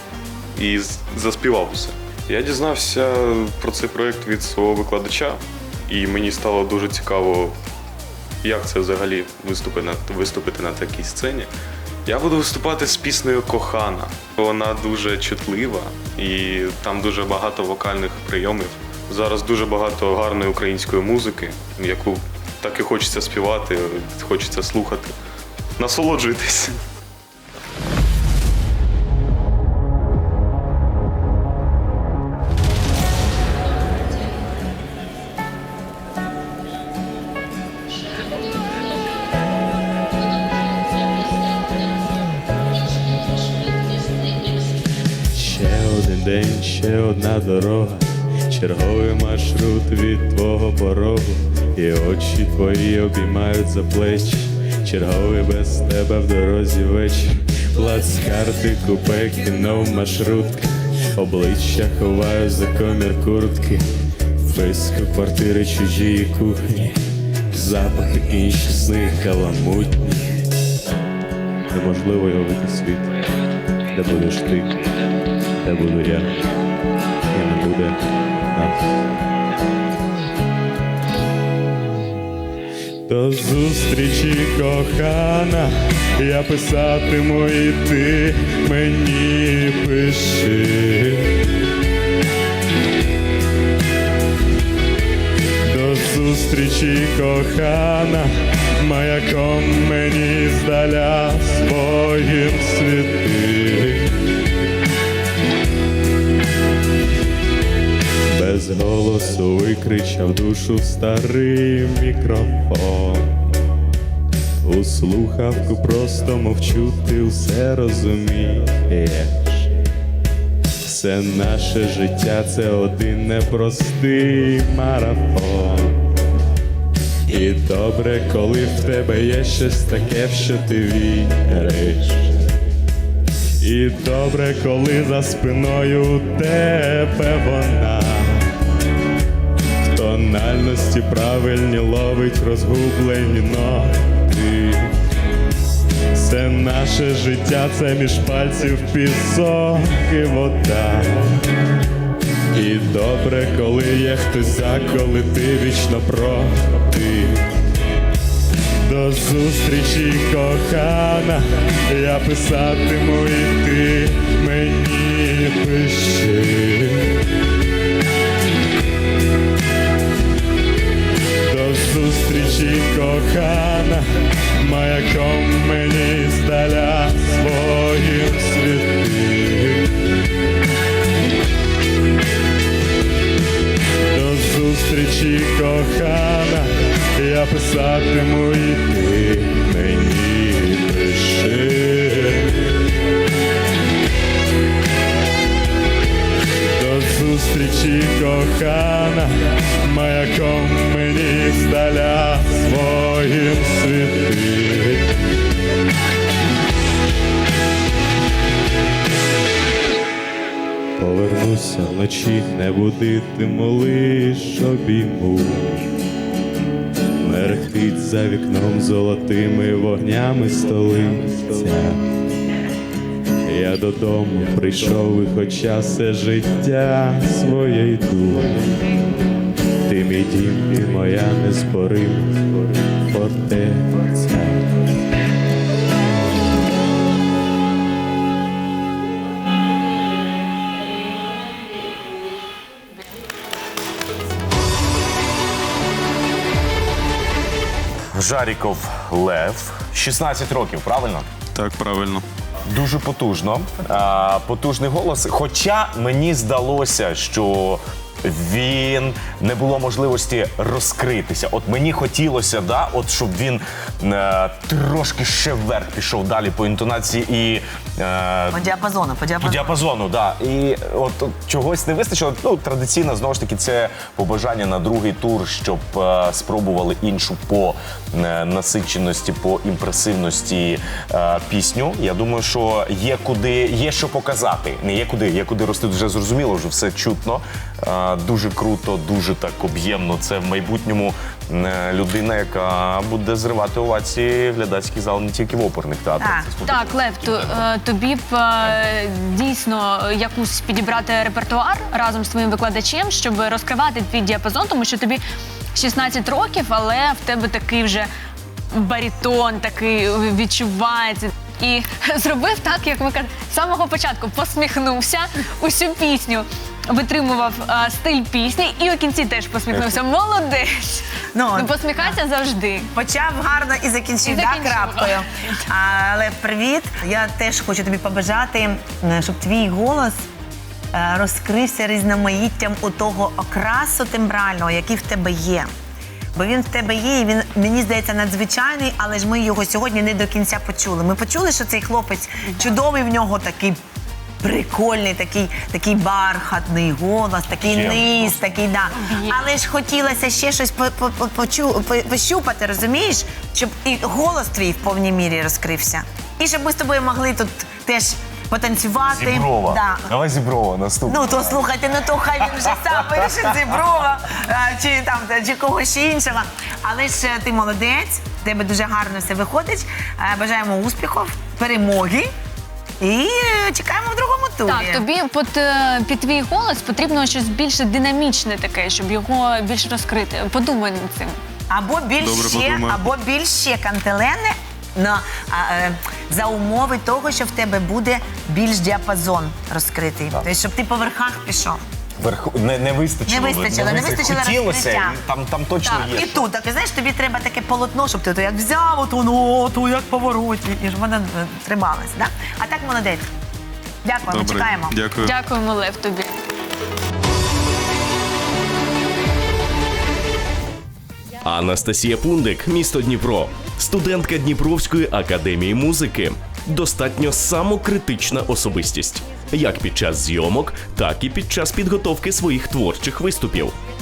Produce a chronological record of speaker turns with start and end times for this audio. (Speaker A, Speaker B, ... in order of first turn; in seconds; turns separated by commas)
Speaker A: 0.6-7.6, Speaker A: 8.4-11.5, Speaker A: 12.1-25.1, Speaker A: 25.8-26.8, Speaker B: 45.3-63.8, Speaker B: 64.4-67.0, Speaker B: 67.5-70.3, Speaker B: 71.7-73.3, Speaker B: 73.9-74.9, Speaker B: 75.6-76.6, Speaker B: 77.3-79.2, Speaker B: 83.1-91.3, Speaker B: 95.7-104.1, Speaker B: 108.3-113.4, Speaker B: 114.6-119.9, Speaker B: 120.8-126.0, Speaker B: 127.3-132.5, Speaker B: 133.6-138.5, Speaker B: 139.8-144.9, Speaker B: 146.1-151.4, Speaker B: 152.5-157.5, Speaker B: 158.8-167.1, Speaker B: 171.4-174.1, Speaker B: 174.6-179.9, Speaker B: 184.1-192.7, Speaker B: 196.6-205.1, Speaker B: 211.0-215.9, Speaker B: 217.2-222.0, Speaker B: 223.5-228.8, Speaker B: 229.8-234.8, Speaker C: 248.1-251.3, Speaker A: 251.5-252.2, Speaker C: 252.7-268.8, Speaker D: 268.5-269.7, Speaker C: 269.4-297.7, Speaker D: 296.2-296.5, Speaker E: 296.6-305.2, Speaker E: 305.7-308.1, Speaker E: 308.7-322.9, Speaker C: 319.7-320.0, Speaker D: 321.4-322.2, Speaker D: 322.9-330.2, Speaker E: 324.2-325.6, Speaker D: 330.9-335.7, Speaker D: 336.4-343.8, Speaker D: 344.4-360.1, Speaker C: 347.6-348.6, Speaker E: 349.0-349.4, Speaker C: 359.1-363.8, Speaker D: 361.1-372.3, Speaker D: 373.0-375.0, Speaker E: 374.6-381.4, Speaker D: 381.7-391.8, Speaker A: 382.2-383.1, Speaker C: 392.2-396.5, Speaker D: 393.3-395.2, Speaker D: 395.8-403.2, Speaker D: 404.0-405.0, Speaker A: 404.3-405.3, Speaker E: 405.2-406.4, Speaker F: 411.4-423.8